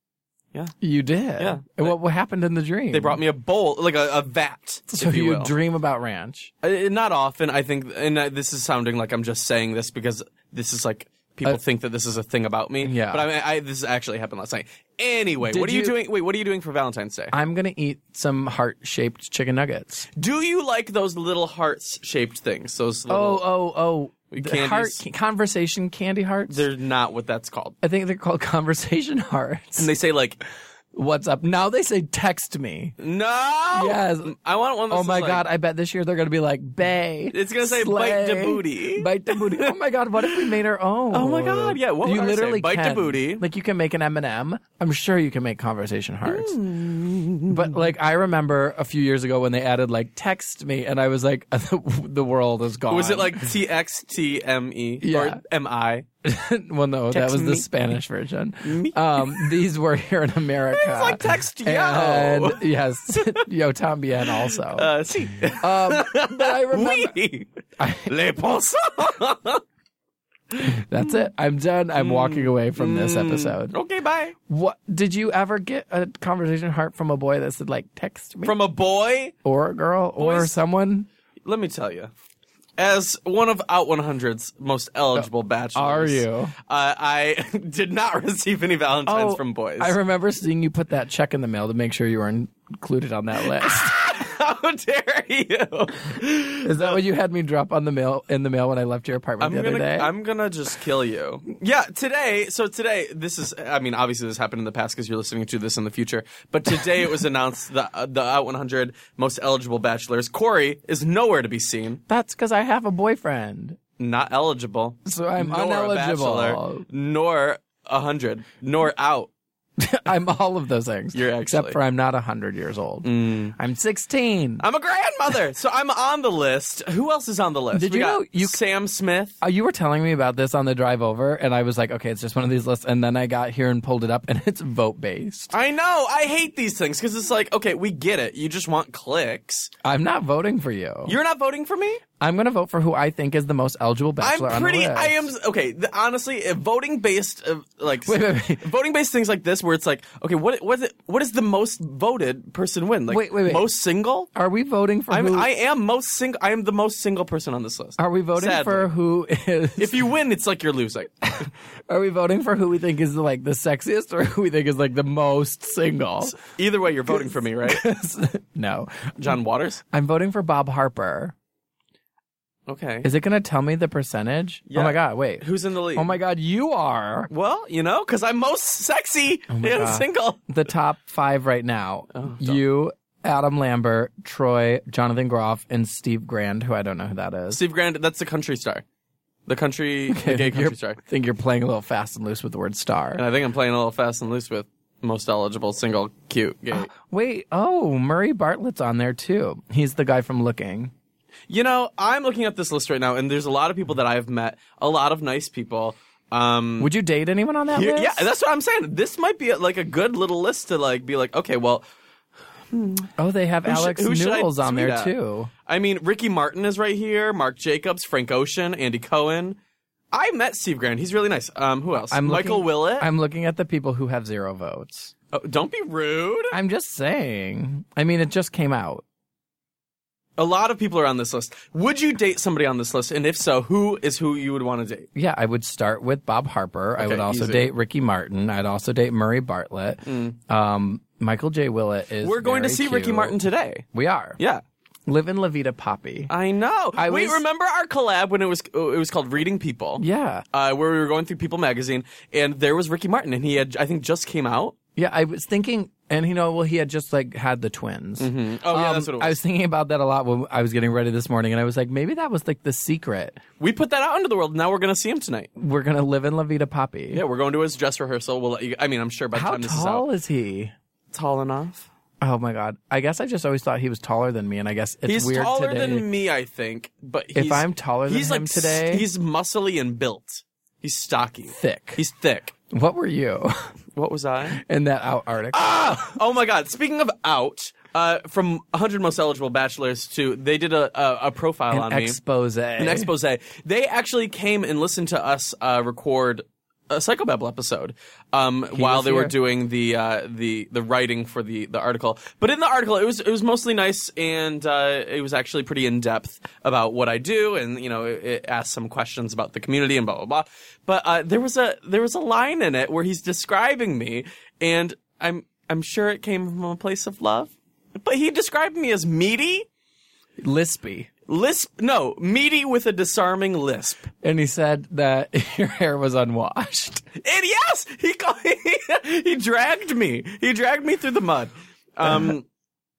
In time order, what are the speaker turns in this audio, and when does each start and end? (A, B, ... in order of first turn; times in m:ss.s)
0:00.8-0:03.2 A
0:01.4-0:02.0 B
0:02.9-0:05.5 B
0:04.9-0:06.5 A
0:06.6-0:17.3 B
0:12.8-0:13.2 A
0:15.4-0:16.0 A
0:17.3-0:20.1 A
0:20.2-0:23.4 B
0:23.1-0:26.7 A
0:24.3-0:25.1 B
0:26.5-0:27.8 B
0:27.8-0:29.9 A
0:29.8-0:30.4 B
0:30.9-0:33.0 A
0:33.0-0:35.4 B
0:33.7-0:34.4 A
0:34.9-0:46.6 A
0:37.3-0:39.8 B
0:41.1-0:43.4 B
0:46.3-0:47.7 B
0:47.5-0:53.6 A
0:52.9-0:56.1 B
0:55.0-0:55.4 A
0:56.2-1:04.9 A
0:57.1-0:57.7 B
0:58.6-0:59.5 B
1:00.7-1:03.4 B
1:04.5-1:07.5 B
1:05.6-1:07.1 A
1:07.8-1:08.1 A
1:08.0-1:09.6 B
1:10.6-1:13.8 A
1:12.0-1:14.4 B
1:14.5-1:18.6 A
1:18.4-1:19.4 B
1:19.4-1:21.1 A
1:20.2-1:20.6 B
1:21.4-1:22.1 B
1:22.8-1:30.0 B
1:25.2-1:26.5 A
1:29.1-1:33.9 A
1:33.5-1:37.0 B
1:36.6-1:40.1 A
1:39.4-1:52.0 B
1:52.1-1:53.8 A
1:54.0-1:59.3 B
1:55.0-1:56.9 A
1:59.8-2:04.6 A
2:01.1-2:01.8 B
2:03.0-2:03.6 B
2:04.6-2:09.4 B
2:07.7-2:08.6 A
2:09.4-2:15.5 A
2:15.5-2:19.7 B
2:19.8-2:21.2 A
2:21.1-2:22.0 B
2:22.2-2:25.3 A
2:24.2-2:34.3 B
2:28.1-2:28.6 A
2:33.1-2:33.7 A
2:34.3-2:35.5 A
2:35.1-2:38.9 B
2:38.0-2:40.1 A
2:39.8-2:41.1 B
2:41.3-2:46.4 A
2:46.2-2:47.8 B
2:47.1-2:49.2 A
2:49.2-2:49.8 B
2:49.9-2:51.4 A
2:52.7-2:53.1 B
2:53.0-2:55.4 A
2:54.7-2:56.2 B
2:56.0-2:57.3 A
2:57.3-3:00.4 B
2:59.5-3:07.6 A
3:02.1-3:02.6 B
3:07.5-3:08.8 B
3:09.5-3:11.0 B
3:10.1-3:13.2 A
3:13.2-3:16.9 B
3:16.7-3:20.9 A
3:21.5-3:26.9 B
3:26.8-3:28.3 A
3:27.7-3:31.8 B
3:32.7-3:33.1 B
3:33.2-3:35.5 A
3:33.6-3:35.1 B
3:35.7-3:39.6 B
3:40.1-3:43.1 B
3:42.1-3:45.1 A
3:45.3-3:46.6 B
3:46.5-3:49.0 A
3:50.4-3:55.1 B
3:55.2-4:03.4 A
3:57.0-3:57.7 B
4:00.1-4:00.4 B
4:02.2-4:03.9 B
4:03.9-4:04.4 A
4:05.1-4:06.3 A
4:06.3-4:14.8 B
4:07.0-4:07.4 A
4:10.0-4:10.4 A
4:15.0-4:23.4 A
4:18.2-4:19.4 B
4:23.6-4:25.5 B
4:25.6-4:27.2 A
4:27.1-4:30.1 B
4:29.3-4:30.7 A
4:31.1-4:31.9 B
4:32.2-4:36.1 A
4:35.1-4:42.5 B
4:37.4-4:39.1 A
4:41.5-4:42.0 A
4:42.7-4:43.5 A
4:44.0-4:44.6 B
4:44.5-4:46.2 A
4:45.5-4:52.2 B
4:51.7-4:53.1 A
4:52.8-5:19.7 B
4:58.7-4:59.3 A
5:20.4-5:21.1 A
5:21.3-5:24.1 B
5:24.2-5:27.0 A
5:27.2-5:32.5 B
5:32.0-5:32.3 A